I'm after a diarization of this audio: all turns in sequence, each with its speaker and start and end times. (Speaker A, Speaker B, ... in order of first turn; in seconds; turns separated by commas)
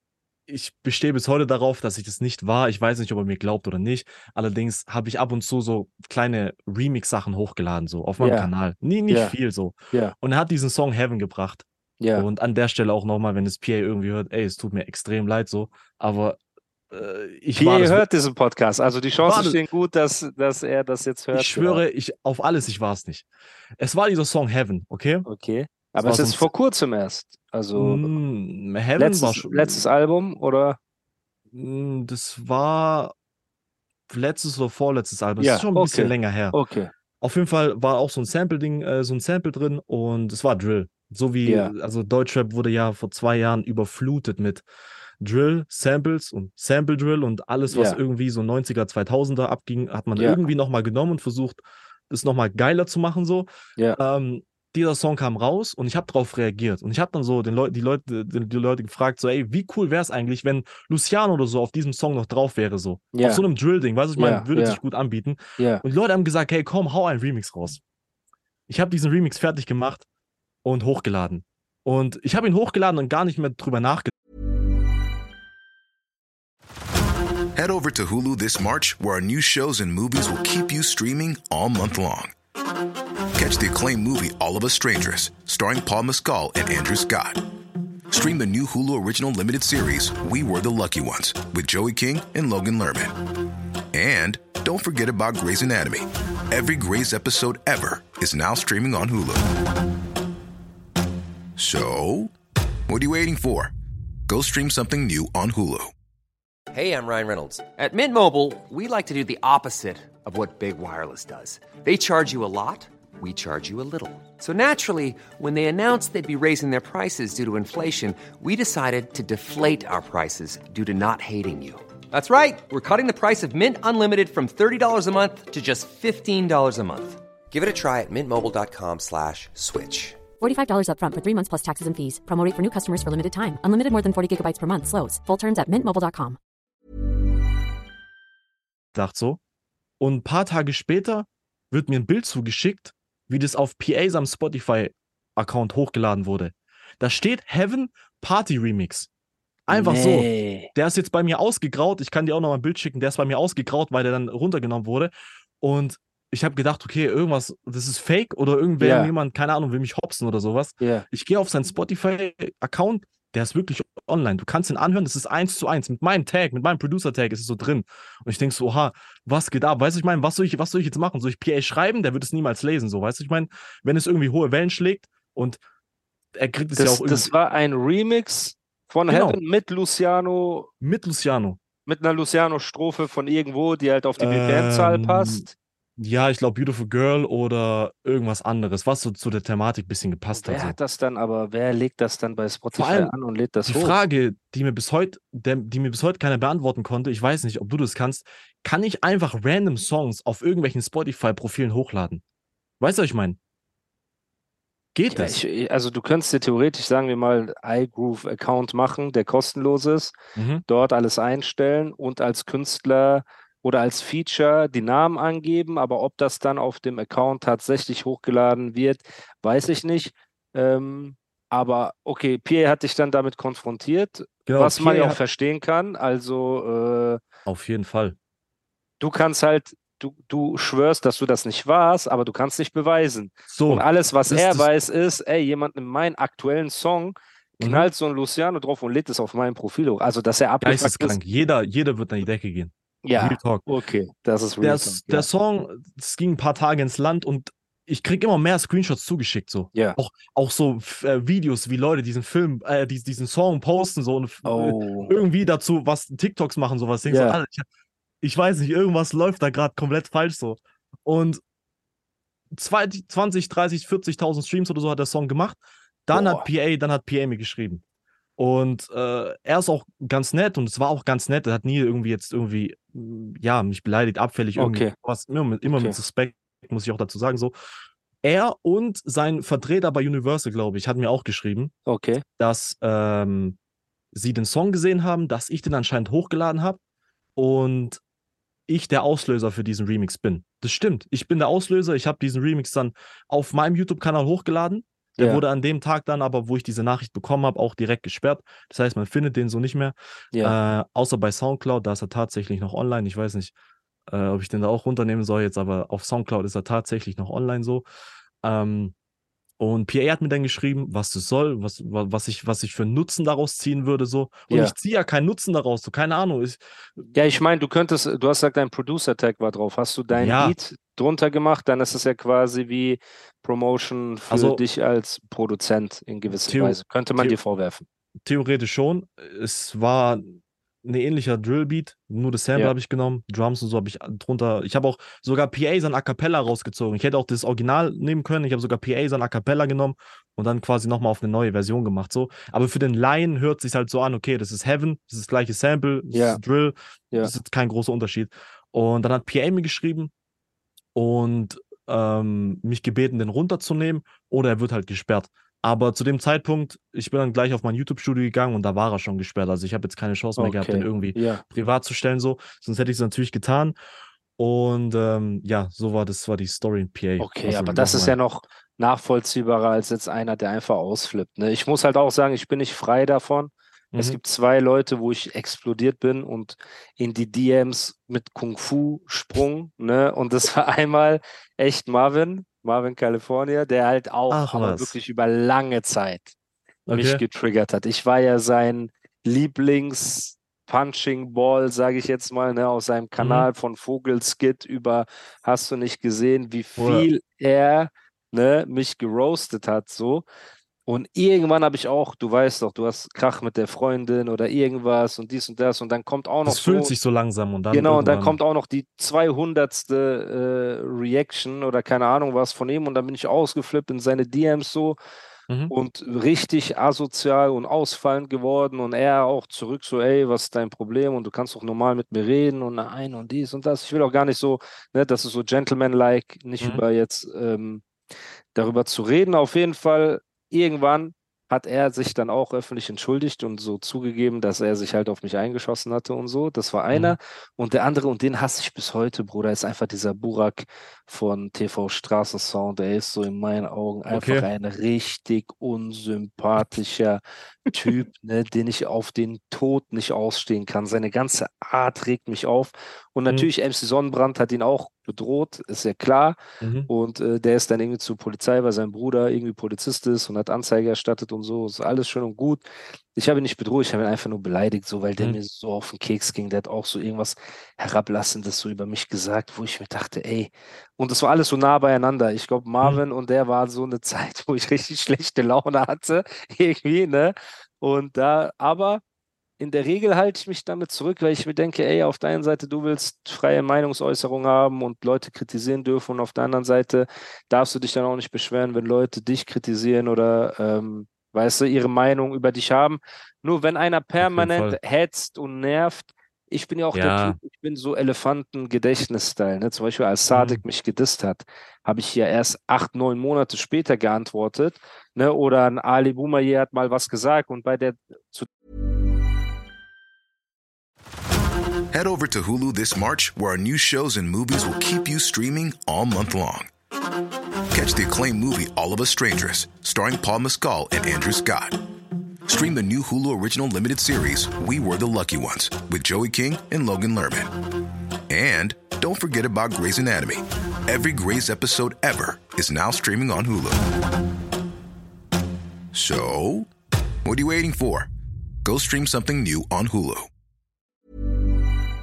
Speaker A: 0.5-16.4, Speaker B: 8.2-8.5, Speaker B: 9.1-9.3, Speaker B: 12.0-12.2, Speaker A: 16.9-18.1, Speaker B: 17.6-21.8, Speaker A: 19.2-19.6, Speaker A: 21.3-23.3, Speaker A: 23.8-25.3, Speaker B: 25.3-28.1, Speaker A: 26.0-26.5, Speaker A: 27.8-29.9, Speaker B: 29.0-30.8, Speaker A: 31.5-33.1, Speaker A: 34.1-36.6, Speaker B: 35.4-36.9, Speaker A: 37.2-44.6, Speaker B: 41.4-41.7, Speaker A: 45.2-67.8, Speaker B: 47.7-48.0, Speaker B: 50.2-50.5, Speaker B: 63.1-63.4, Speaker B: 64.2-64.8, Speaker B: 65.6-65.8, Speaker A: 68.7-70.1, Speaker A: 70.7-74.1, Speaker C: 77.6-82.3, Speaker C: 83.4-87.4, Speaker C: 88.1-93.1, Speaker C: 93.9-99.4, Speaker C: 101.6-102.3, Speaker C: 102.9-103.7, Speaker C: 104.3-105.9, Speaker D: 106.7-130.2, Speaker E: 130.4-136.4, Speaker A: 138.9-139.4, Speaker A: 140.0-149.1, Speaker A: 149.7-175.6, Speaker B: 149.7-150.7, Speaker B: 158.8-159.1, Speaker B: 160.8-161.1, Speaker A: 176.4-177.3, Speaker B: 176.7-180.7, Speaker A: 179.1-179.4, Speaker A: 180.8-181.6, Speaker B: 181.9-185.5, Speaker A: 184.2-185.4, Speaker A: 186.0-190.8, Speaker B: 190.3-194.0, Speaker A: 192.7-193.1, Speaker A: 193.7-202.2, Speaker A: 202.8-203.4, Speaker A: 204.9-205.4, Speaker B: 205.1-210.2, Speaker A: 210.4-210.6, Speaker B: 210.7-227.2, Speaker A: 224.5-225.2, Speaker A: 227.5-228.2, Speaker B: 229.0-241.2, Speaker A: 233.5-234.7, Speaker A: 237.6-237.9, Speaker A: 240.6-243.7, Speaker B: 243.1-245.3, Speaker A: 244.6-257.7, Speaker B: 254.4-255.2, Speaker B: 257.1-257.4, Speaker A: 258.2-261.4, Speaker A: 262.5-267.8, Speaker B: 266.1-266.5, Speaker A: 268.4-277.6, Speaker B: 274.6-274.9, Speaker B: 275.7-276.0, Speaker A: 278.2-281.7, Speaker B: 281.9-282.2, Speaker A: 282.4-283.6, Speaker A: 284.1-286.8, Speaker A: 287.4-288.0, Speaker A: 288.7-303.5, Speaker A: 304.1-307.9, Speaker A: 308.4-308.9, Speaker A: 309.6-317.1, Speaker B: 314.5-314.7, Speaker B: 317.1-327.9, Speaker A: 320.1-320.6, Speaker A: 324.3-324.6, Speaker A: 326.5-327.4, Speaker A: 328.2-350.1, Speaker B: 346.1-346.4, Speaker A: 350.9-363.8, Speaker B: 360.4-361.4, Speaker A: 364.4-368.2, Speaker B: 367.2-386.3, Speaker A: 373.9-374.2, Speaker A: 384.3-384.9, Speaker A: 386.9-387.2, Speaker B: 386.9-400.3, Speaker A: 393.2-393.5, Speaker A: 396.8-397.1, Speaker B: 400.9-406.9, Speaker A: 406.4-408.4, Speaker B: 407.7-415.0, Speaker B: 415.7-427.8, Speaker B: 428.6-479.0, Speaker A: 444.1-444.5, Speaker A: 456.6-456.9, Speaker B: 479.6-508.5, Speaker A: 494.2-494.8, Speaker A: 496.9-497.4, Speaker A: 500.3-500.6, Speaker C: 511.9-516.7, Speaker C: 517.7-521.8, Speaker C: 522.5-527.5, Speaker C: 528.3-533.8, Speaker C: 535.9-536.7, Speaker C: 537.2-538.1, Speaker C: 538.6-540.3